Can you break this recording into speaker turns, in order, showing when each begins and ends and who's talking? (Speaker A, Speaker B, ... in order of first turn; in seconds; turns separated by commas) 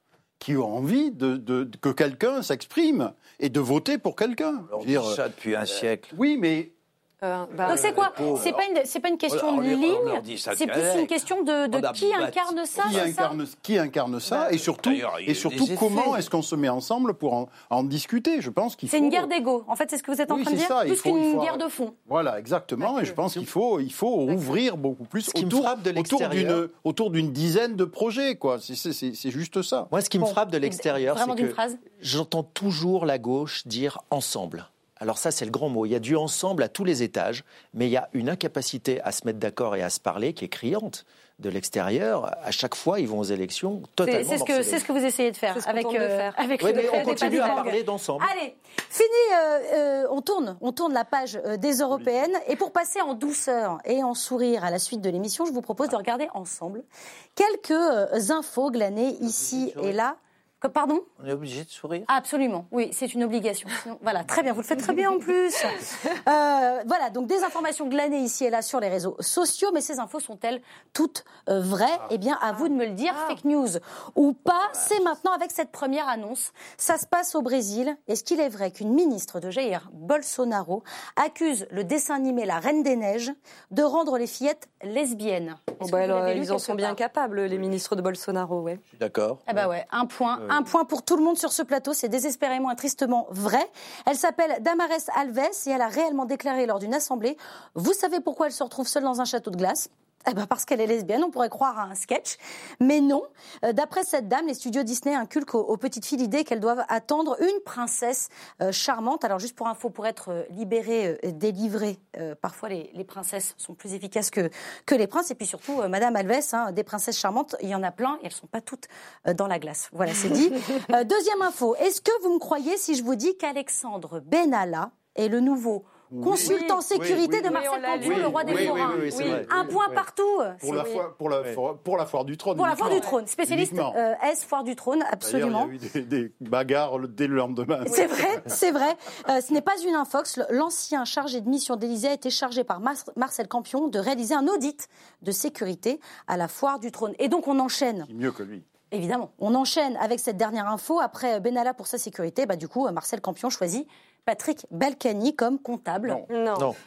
Speaker A: 0.4-5.2, Speaker B: 4.7-6.1, Speaker A: 6.1-6.7, Speaker C: 7.2-8.2, Speaker D: 7.7-13.4, Speaker A: 7.7-8.5, Speaker B: 7.7-8.6, Speaker B: 9.3-13.0, Speaker A: 12.8-19.3, Speaker B: 14.5-16.3, Speaker D: 18.9-21.9, Speaker A: 20.3-29.9, Speaker C: 22.8-23.2, Speaker C: 24.2-24.5, Speaker E: 25.3-26.6, Speaker E: 29.9-44.8, Speaker D: 30.2-31.8, Speaker D: 44.1-56.8, Speaker C: 45.5-47.6, Speaker E: 46.6-48.3, Speaker D: 57.4-61.0, Speaker B: 59.2-60.0, Speaker B: 61.2-62.1, Speaker D: 62.1-87.0, Speaker C: 73.1-73.4, Speaker C: 85.8-88.8, Speaker B: 88.9-89.5, Speaker D: 89.5-130.9, Speaker A: 126.1-130.0, Speaker C: 126.4-126.8, Speaker E: 126.9-127.3, Speaker C: 127.4-129.4, Speaker E: 128.0-129.5, Speaker A: 130.6-134.0, Speaker C: 130.7-131.0, Speaker D: 132.5-135.7, Speaker C: 132.8-133.2, Speaker A: 135.2-138.5, Speaker D: 137.9-148.1, Speaker A: 148.1-148.6, Speaker D: 148.9-156.2, Speaker C: 156.3-156.7